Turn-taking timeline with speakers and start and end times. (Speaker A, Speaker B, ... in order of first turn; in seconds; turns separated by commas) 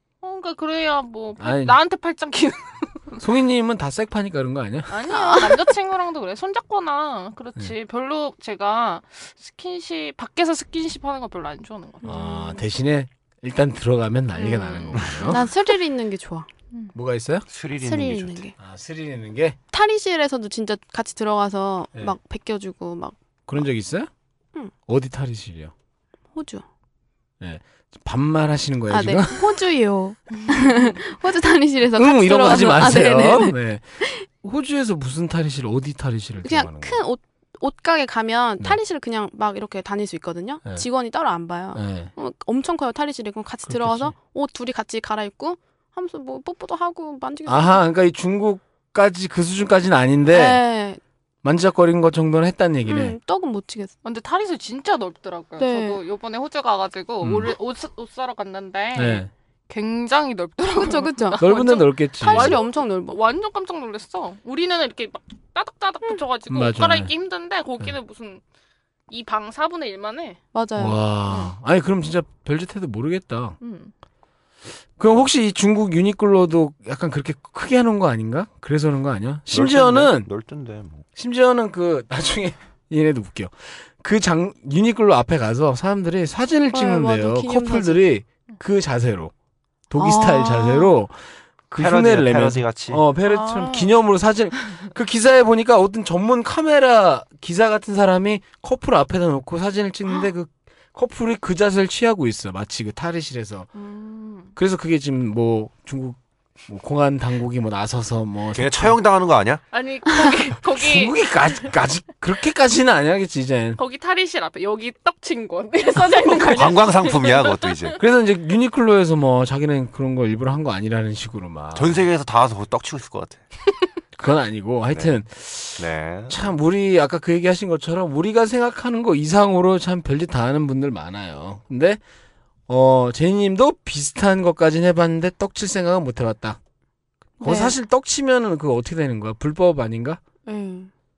Speaker A: 0.2-3.2, Speaker B: 1.4-1.8, Speaker B: 3.2-4.9, Speaker A: 4.9-12.1, Speaker C: 5.1-5.6, Speaker C: 12.0-12.6, Speaker B: 12.1-15.4, Speaker A: 14.3-15.4, Speaker C: 14.4-16.5, Speaker B: 16.9-17.5, Speaker D: 17.5-18.5, Speaker C: 17.8-18.6, Speaker B: 18.6-19.6, Speaker C: 19.7-23.1, Speaker B: 23.5-24.1, Speaker B: 24.9-25.7, Speaker C: 26.4-26.6, Speaker B: 27.4-29.5, Speaker C: 28.9-34.2, Speaker A: 30.4-30.8, Speaker B: 31.9-37.0, Speaker C: 36.4-47.8, Speaker B: 41.7-42.1, Speaker B: 43.7-44.1, Speaker B: 47.5-50.6, Speaker C: 50.3-51.0, Speaker B: 51.4-53.2, Speaker C: 52.9-53.9, Speaker A: 54.0-68.4, Speaker C: 55.6-56.0, Speaker B: 57.2-57.5, Speaker B: 59.0-59.3, Speaker C: 60.7-61.5, Speaker B: 61.4-62.6, Speaker C: 62.2-63.2, Speaker B: 66.5-67.1, Speaker A: 69.1-70.4, Speaker C: 70.5-71.0, Speaker B: 70.8-73.6, Speaker A: 73.6-73.9, Speaker B: 75.0-80.3, Speaker D: 79.5-81.0, Speaker B: 81.2-89.3, Speaker C: 86.7-88.0, Speaker B: 89.9-103.7, Speaker C: 90.0-90.9, Speaker D: 91.8-93.0, Speaker A: 93.3-93.9, Speaker A: 103.8-104.5, Speaker B: 104.6-109.0, Speaker D: 108.5-109.6, Speaker A: 109.7-111.7, Speaker B: 110.7-113.8, Speaker A: 113.8-118.0, Speaker D: 116.5-118.0, Speaker B: 118.0-122.0, Speaker D: 121.8-123.4, Speaker B: 124.2-132.0, Speaker D: 124.9-125.2, Speaker D: 125.8-126.5, Speaker B: 132.7-136.6, Speaker C: 137.4-137.8, Speaker B: 137.4-140.2, Speaker C: 140.5-140.9